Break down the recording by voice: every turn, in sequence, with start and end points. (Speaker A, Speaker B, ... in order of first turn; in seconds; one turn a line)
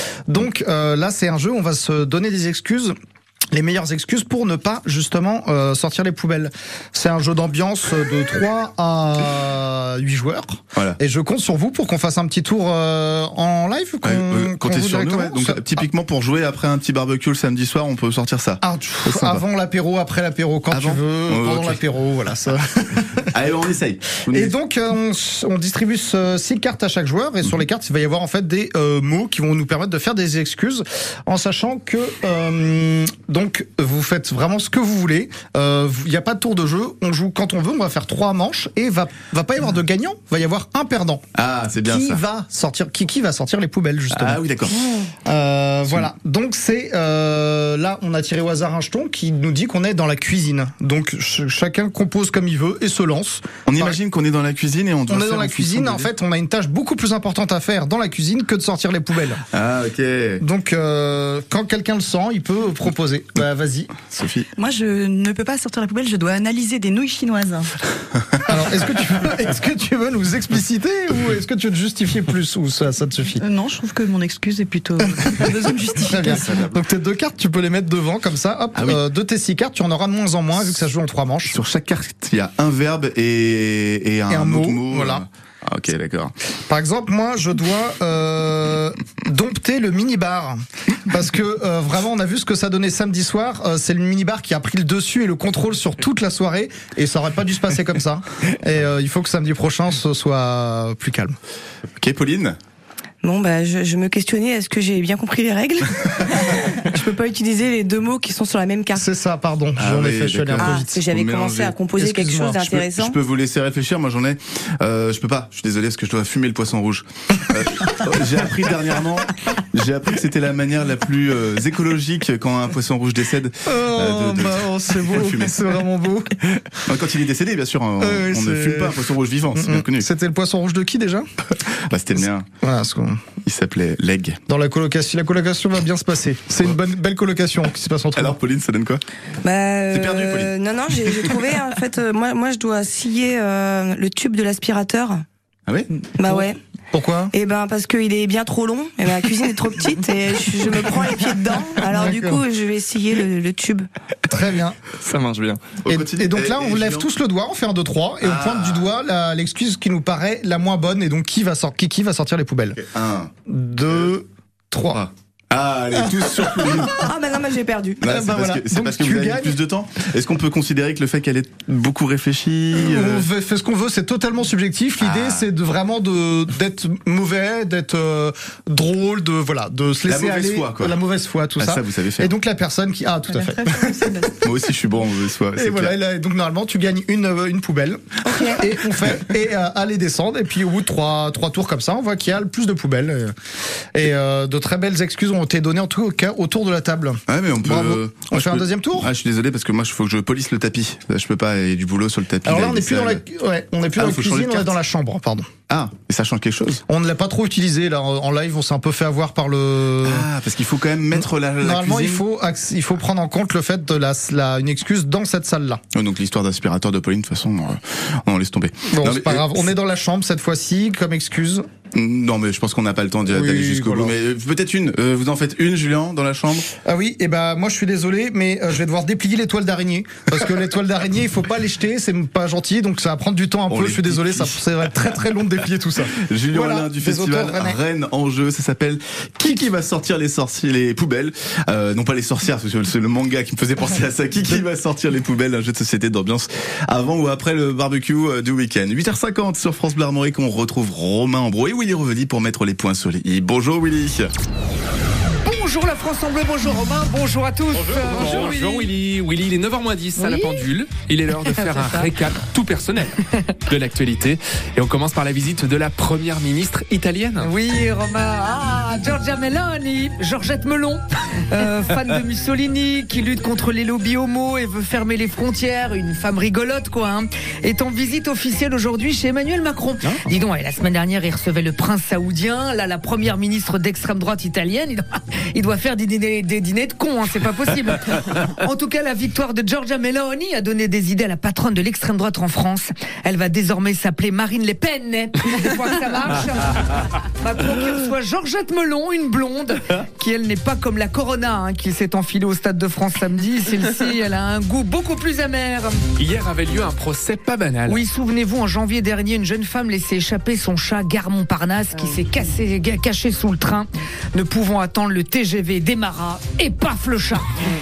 Speaker A: 0.3-2.9
Speaker A: 3.5-15.8
Speaker B: 14.1-19.4
Speaker A: 18.6-23.3
Speaker B: 20.7-21.8
Speaker B: 23.3-24.5
Speaker A: 24.3-41.2
Speaker B: 41.4-42.2
Speaker A: 41.9-44.4
Speaker B: 44.1-44.9
Speaker A: 45.2-54.0
Speaker B: 53.7-56.1
Speaker A: 55.1-59.4
Speaker B: 59.5-60.4
Speaker A: 60.4-63.9
Speaker B: 64.1-64.5
Speaker C: 64.6-67.7
Speaker A: 68.5-73.4
Speaker C: 73.4-76.4
Speaker A: 75.1-81.6
Speaker B: 76.2-76.8
Speaker B: 81.5-86.3
Speaker A: 84.3-85.2
Speaker A: 86.7-101.4
Speaker B: 102.0-102.6
Speaker D: 103.2-109.1
Speaker A: 109.0-110.9
Speaker B: 109.8-111.8
Speaker D: 110.6-113.2
Speaker A: 112.0-112.7
Speaker B: 112.7-125.6
Speaker A: 123.7-126.5
Speaker B: 126.9-130.1
Speaker A: 128.0-131.3
Speaker B: 131.7-132.5
Speaker A: 132.6-133.3
Speaker B: 133.4-134.4
Speaker A: 134.5-138.4
Speaker B: 138.2-139.0
Speaker D: 139.4-145.2
Speaker B: 139.9-140.5
Speaker D: 146.2-146.6
Speaker A: 146.3-147.3
Speaker D: 147.3-153.9
Speaker A: 151.9-152.4
Speaker A: 154.3-154.8
Speaker E: 155.1-155.6
Speaker B: 155.8-157.1
Speaker A: 155.9-162.8
Speaker B: 158.2-158.9
Speaker B: 162.8-163.3
Speaker A: 163.5-165.0
Speaker B: 164.9-167.0
Speaker A: 166.2-166.8
Speaker D: 166.7-168.0
Speaker A: 168.0-169.6
Speaker B: 168.0-173.3
Speaker A: 172.7-184.3
Speaker B: 175.0-175.4
Speaker B: 180.1-181.0
Speaker B: 181.6-182.3
Speaker C: 183.3-184.3
Speaker B: 184.4-185.9
Speaker A: 185.6-193.3
Speaker D: 188.2-188.6
Speaker A: 193.9-199.1
Speaker B: 197.3-203.2
Speaker A: 202.4-205.5
Speaker B: 204.0-204.8
Speaker B: 205.7-206.8
Speaker A: 206.9-210.3
Speaker B: 210.1-212.2
Speaker A: 211.6-215.8
Speaker B: 215.9-219.7
Speaker A: 218.9-221.7
Speaker B: 221.9-226.7
Speaker A: 223.3-224.1
Speaker A: 226.8-237.8
Speaker B: 233.7-234.6
Speaker B: 236.1-254.3
Speaker F: 255.4-258.9
Speaker E: 257.8-263.1
Speaker F: 260.2-260.7
Speaker F: 261.5-262.1
Speaker E: 263.7-267.5
Speaker F: 267.4-306.0
Speaker E: 306.2-308.0
Speaker F: 307.9-317.5